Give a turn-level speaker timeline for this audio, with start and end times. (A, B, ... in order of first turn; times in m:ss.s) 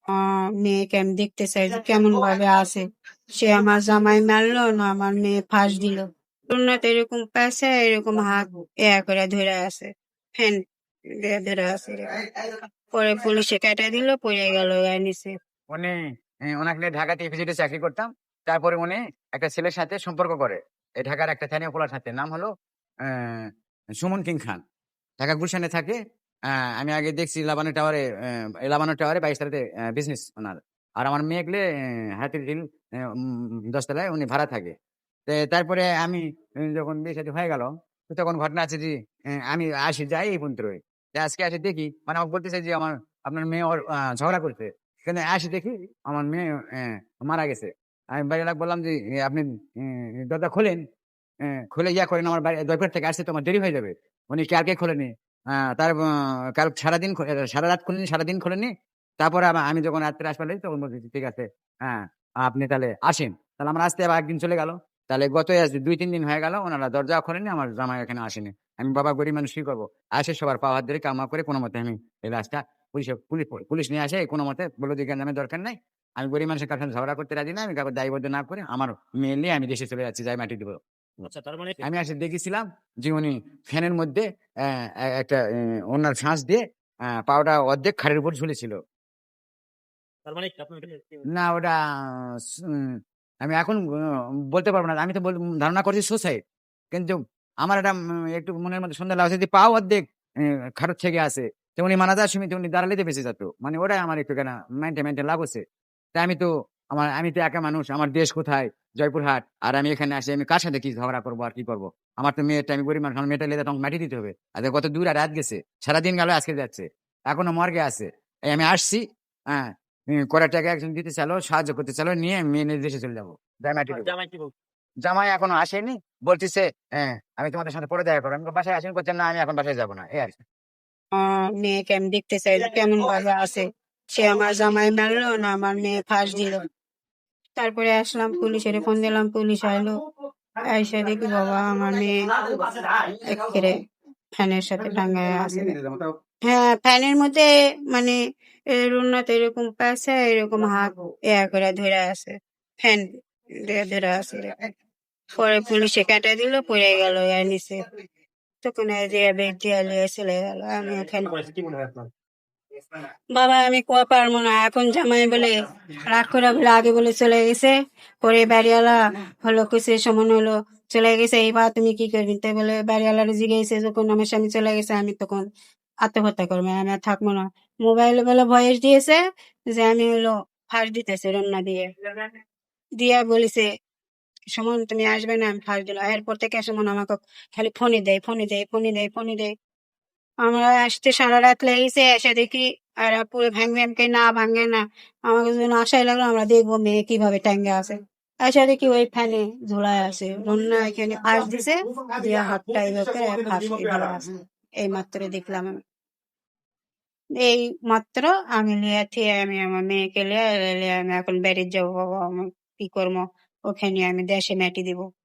0:00.1-0:02.8 A
0:03.4-0:10.6 A
0:11.2-0:15.3 A
0:16.5-0:22.5 B
0:23.1-0:23.5 B
0:24.0-0:24.6 B
0:25.2-0:26.0 B
0:26.8-0:28.0 B
0:28.6-0:31.6 B
0:32.2-0:34.7 B
0:35.3-0:50.8 B
0:51.7-0:56.0 B
0:56.6-1:20.8 B
1:21.2-1:21.8 C
1:21.8-1:24.2 B
1:25.9-1:26.6 B
1:27.3-1:28.8 B
1:30.3-1:31.2 C
1:31.3-1:33.8 B
1:34.5-1:36.4 B
1:36.9-1:40.0 B
1:40.8-1:45.6 B
1:46.2-2:04.1 B
2:03.9-2:04.5 C
2:05.0-2:10.4 B
2:11.2-2:13.6 A
2:14.2-2:16.6 A
2:17.6-2:20.0 A
2:20.7-2:23.8 A
2:24.4-2:25.8 A
2:26.5-2:28.2 A
2:28.7-2:33.1 A
2:33.7-2:34.5 A
2:35.4-2:37.8 A
2:38.6-2:41.4 A
2:41.3-2:42.0 C
2:43.4-2:55.4 A
2:56.0-2:59.2 A
2:59.7-3:02.3 A
3:03.0-3:03.7 A
3:04.5-3:09.5 A
3:10.4-3:25.7 A
3:27.4-3:35.0 A